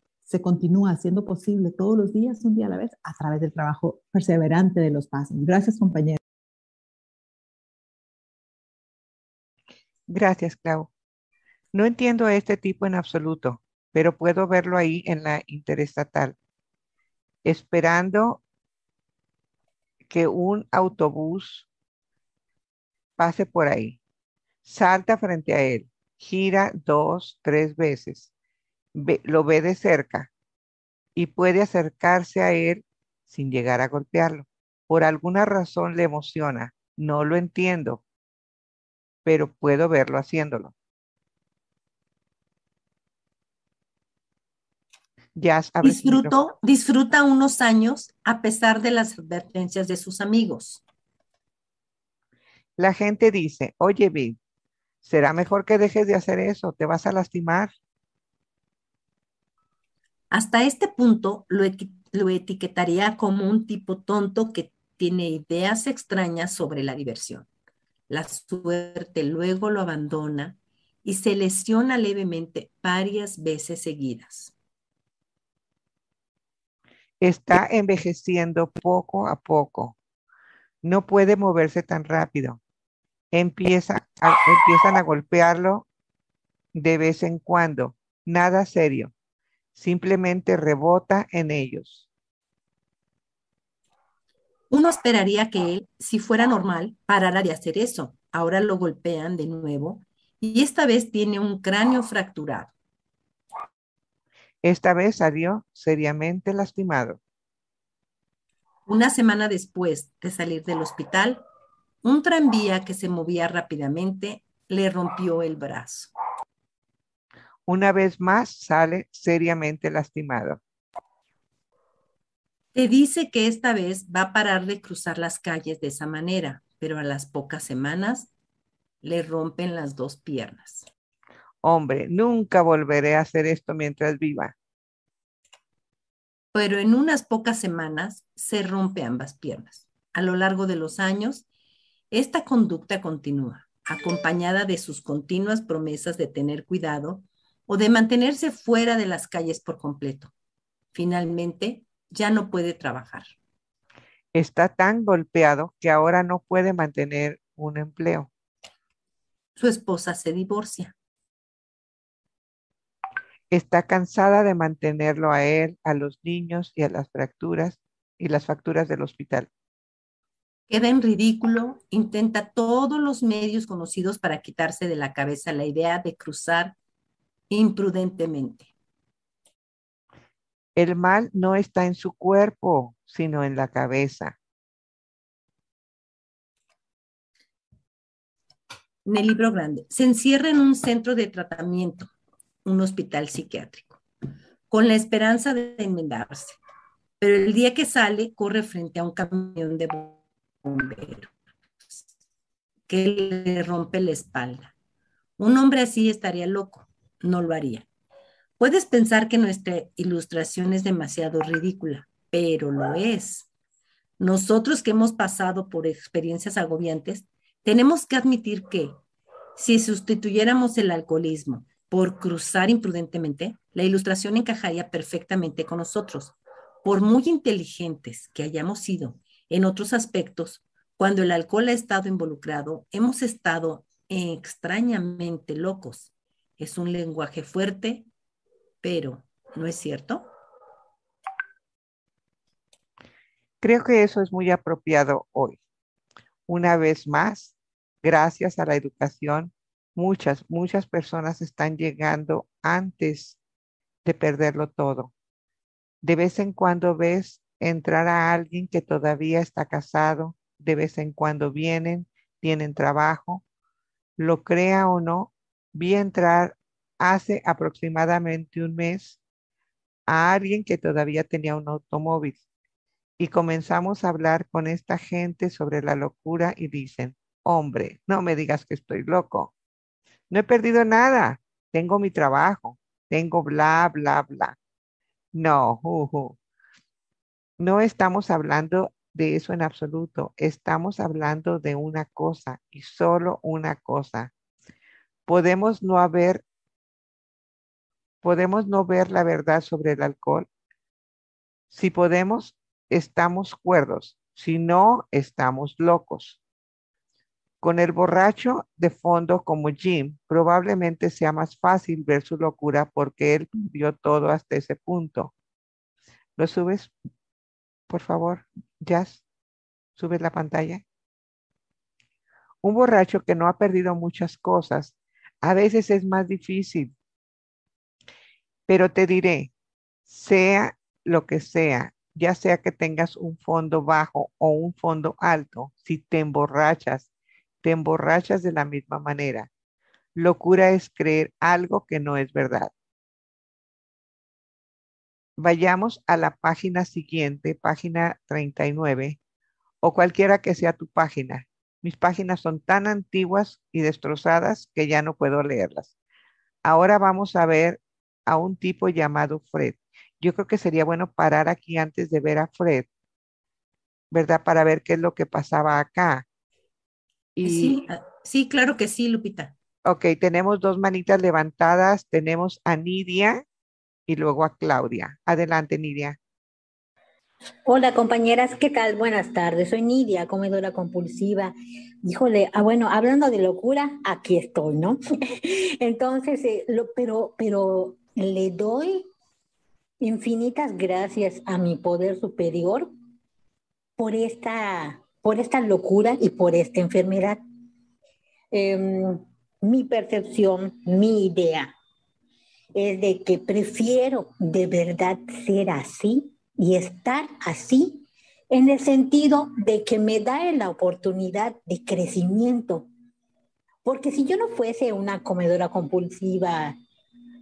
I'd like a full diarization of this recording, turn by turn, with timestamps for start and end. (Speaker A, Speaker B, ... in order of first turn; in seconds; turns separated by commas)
Speaker A: 0.2-6.2, Speaker B: 10.1-10.9, Speaker B: 11.7-16.4, Speaker B: 17.4-18.4, Speaker B: 20.1-21.7, Speaker B: 23.2-24.0, Speaker B: 24.6-28.3, Speaker B: 28.9-30.3, Speaker B: 31.2-38.0, Speaker B: 39.2-40.7, Speaker B: 45.4-46.4, Speaker C: 45.8-50.8, Speaker B: 52.8-54.4, Speaker B: 55.0-57.7, Speaker C: 60.3-67.5, Speaker C: 68.1-74.5, Speaker B: 77.2-80.0, Speaker B: 80.8-82.6, Speaker B: 83.3-85.9, Speaker B: 86.7-89.1, Speaker B: 89.8-92.1, Speaker C: 94.7-102.7, Speaker B: 104.6-107.2, Speaker C: 108.9-111.4, Speaker C: 112.0-116.1, Speaker B: 117.7-120.6, Speaker C: 122.7-128.3, Speaker C: 129.0-130.9, Speaker B: 131.6-134.6, Speaker C: 136.5-141.4, Speaker C: 142.1-150.3, Speaker C: 150.9-153.3, Speaker B: 154.3-158.3, Speaker C: 159.6-160.9, Speaker B: 163.5-169.5, Speaker C: 170.7-176.8, Speaker C: 177.5-178.7, Speaker B: 180.8-184.4, Speaker C: 189.1-192.1, Speaker C: 192.7-194.0, Speaker C: 194.7-196.6, Speaker C: 197.2-201.3, Speaker C: 202.9-204.7, Speaker C: 205.4-207.9, Speaker C: 208.6-213.5, Speaker C: 214.2-219.0, Speaker C: 219.6-238.1, Speaker C: 238.8-240.3, Speaker B: 243.6-245.6, Speaker B: 246.5-253.4, Speaker B: 254.0-255.1, Speaker B: 256.0-263.4, Speaker B: 264.2-269.2, Speaker B: 270.1-272.4, Speaker B: 273.2-279.5, Speaker B: 280.3-284.6, Speaker B: 285.3-286.4, Speaker B: 287.6-294.3, Speaker B: 295.3-296.4, Speaker B: 298.2-300.5, Speaker B: 301.7-306.4, Speaker B: 307.6-315.3, Speaker B: 316.4-316.9, Speaker B: 317.9-319.2, Speaker B: 320.0-320.8, Speaker B: 322.6-326.9, Speaker B: 328.7-329.5, Speaker B: 330.1-337.1, Speaker B: 337.6-339.5, Speaker B: 340.2-342.7, Speaker B: 345.4-349.2, Speaker B: 349.8-355.9, Speaker B: 356.6-362.9, Speaker B: 364.1-366.2, Speaker B: 367.4-367.8, Speaker C: 367.4-369.5, Speaker B: 369.9-373.4, Speaker B: 374.1-376.2, Speaker D: 377.6-389.1, Speaker D: 390.0-392.9, Speaker D: 394.0-397.4, Speaker D: 398.5-401.8, Speaker D: 402.8-412.9, Speaker D: 413.8-416.8